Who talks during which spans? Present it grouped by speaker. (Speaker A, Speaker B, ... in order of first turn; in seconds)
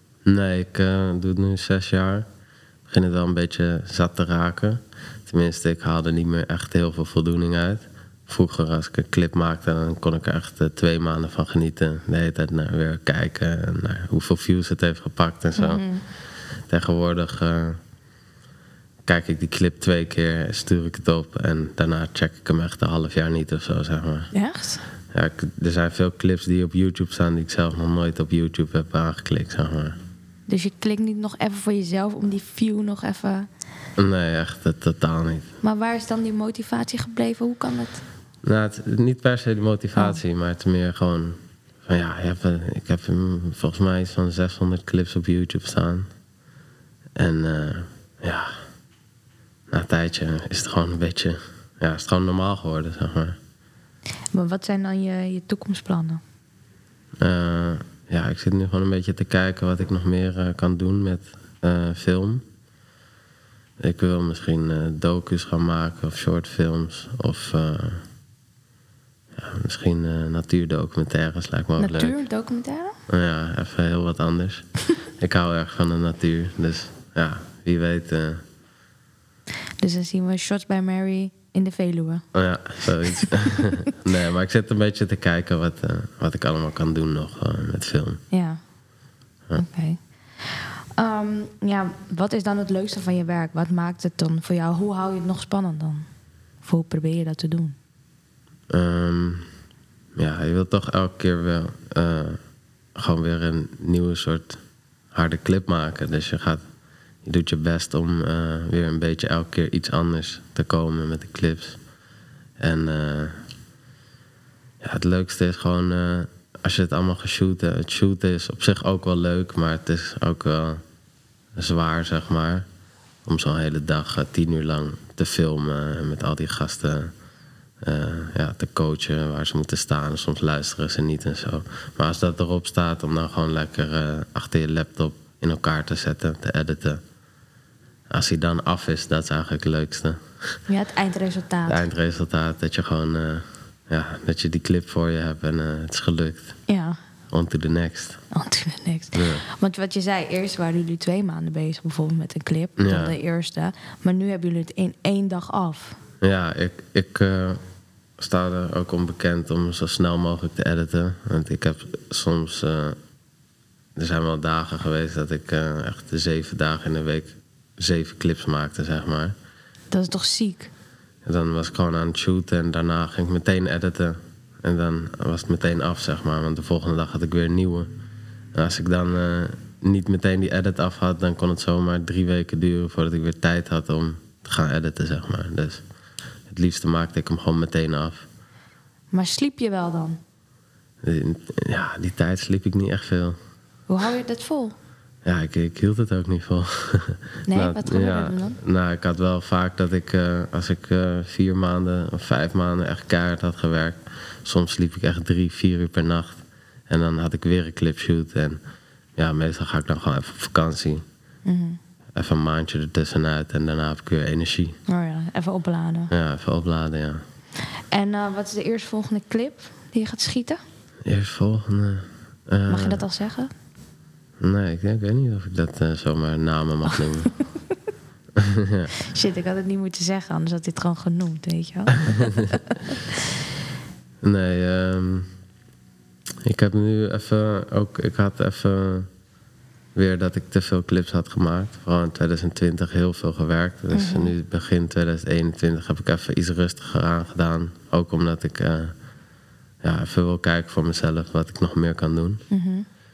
Speaker A: 0.2-2.2, 2.9-15.9, 16.7-17.8, 19.1-24.3, 25.1-30.0, 34.0-35.5, 38.4-46.1, 47.2-48.5, 49.7-53.4, 57.2-62.4, 63.8-68.0, 69.4-72.1, 73.1-78.4, 82.3-88.2, 98.7-99.5, 100.2-102.4, 103.0-104.6, 105.1-106.6, 107.2-111.8, 112.6-113.4, 114.8-120.8, 121.6-122.7, 123.2-127.1, 127.8-137.0, 138.1-140.6, 141.7-146.6, 147.3-148.2, 149.1-149.4, 152.8-153.1, 156.2-157.6, 158.2-163.0, 163.9-169.3, 171.2-177.9, 178.5-185.8, 186.5-188.2, 191.0-193.3, 195.2-208.6, 209.2-211.0, 212.1-214.8, 216.1-217.2, 221.1-223.0, 224.4-227.3, 234.2-235.3, 236.4-239.1, 239.9-248.9, 249.8-252.4
Speaker B: 15.6-16.0, 24.3-24.8, 30.5-33.5, 35.6-38.0, 40.0-40.2, 54.3-56.2, 71.8-73.0, 79.8-82.2, 88.3-88.6, 89.5-96.1, 96.6-97.8, 140.7-141.9, 146.7-147.0, 148.3-156.0, 169.9-170.7, 189.1-190.2, 193.9-194.7, 197.4-198.6, 211.4-211.8, 214.8-216.1, 217.7-220.6, 222.7-223.5, 229.0-233.0, 243.9-244.3, 252.5-252.8